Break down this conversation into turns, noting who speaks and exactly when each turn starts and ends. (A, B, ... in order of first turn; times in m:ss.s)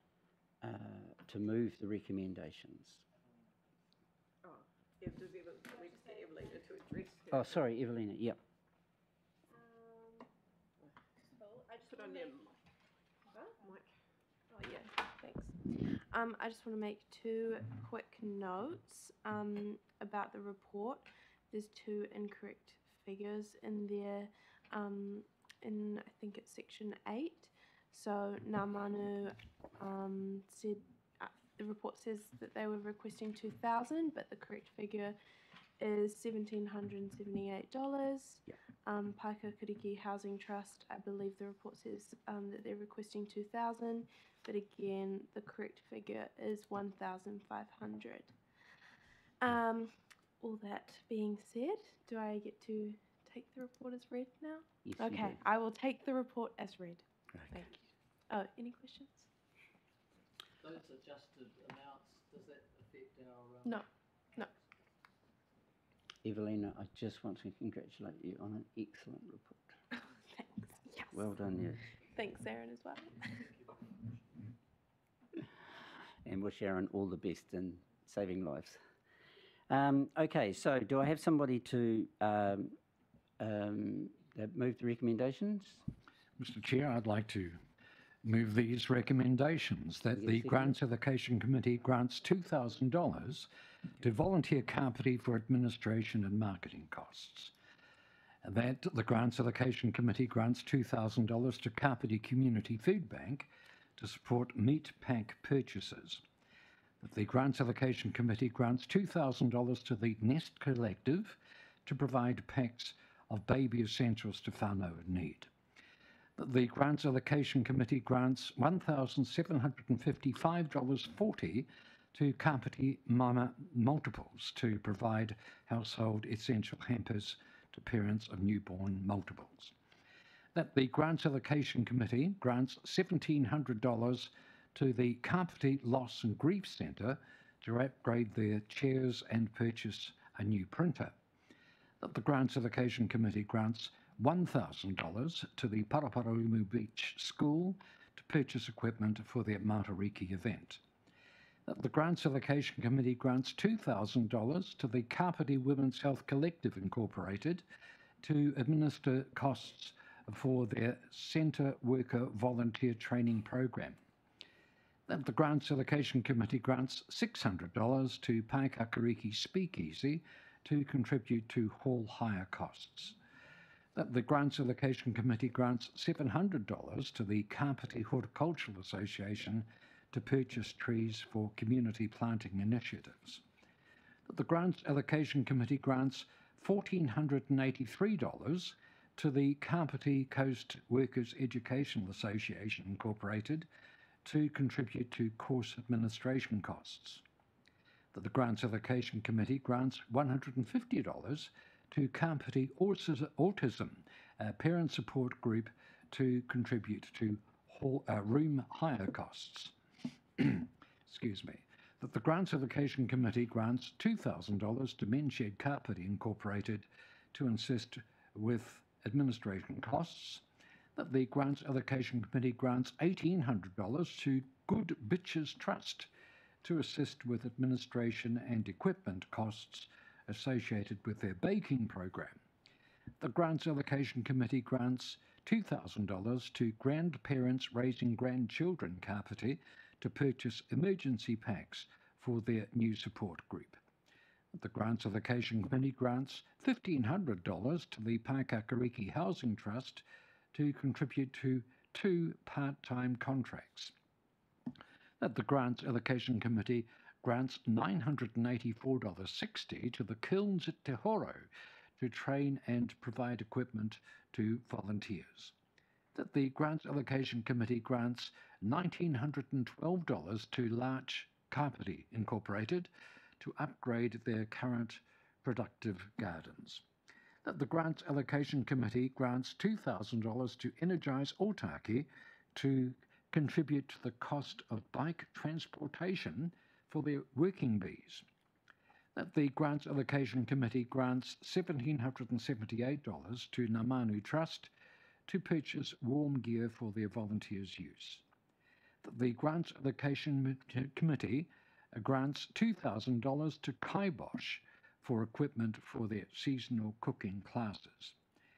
0:00.6-0:03.0 A
0:04.4-0:07.5 B
0:07.3-0:08.4 A
0:09.5-0:10.3 B
0:10.8-0:12.5 B
0:11.8-0:12.4 C
0:13.3-0:13.9 B
0:14.5-0:35.2 C
0:35.8-0:48.4 C
0:49.4-0:59.3 C
0:54.8-0:55.4 A
1:00.6-1:03.8 D
1:03.6-1:04.5 C
1:06.2-1:09.8 A
1:10.3-1:11.3 C
1:11.1-1:11.8 A
1:12.1-1:13.5 C
1:16.2-1:18.8 A
1:19.7-1:22.8 A
1:23.4-1:25.8 A
1:26.4-1:27.6 E
1:28.2-1:33.5 E
1:30.2-1:30.8 A
1:34.0-1:37.5 E
1:38.4-1:46.2 E
1:47.0-1:55.5 E
1:56.4-2:09.7 E
2:10.6-2:21.2 E
2:22.0-2:30.8 E
2:31.7-2:37.6 E
2:38.2-2:44.0 E
2:45.1-2:53.2 E
2:54.0-3:03.4 E
3:04.3-3:13.7 E
3:14.2-3:17.2 E
3:18.1-3:29.7 E
3:30.4-3:40.4 E
3:41.0-3:46.1 E
3:46.6-3:52.4 E
3:53.2-4:03.8 E
4:04.6-4:13.9 E
4:15.2-4:25.5 E
4:26.2-4:36.8 E
4:37.4-4:48.2 E
4:49.2-4:54.7 E
4:55.3-4:58.2 E
4:59.0-5:08.2 E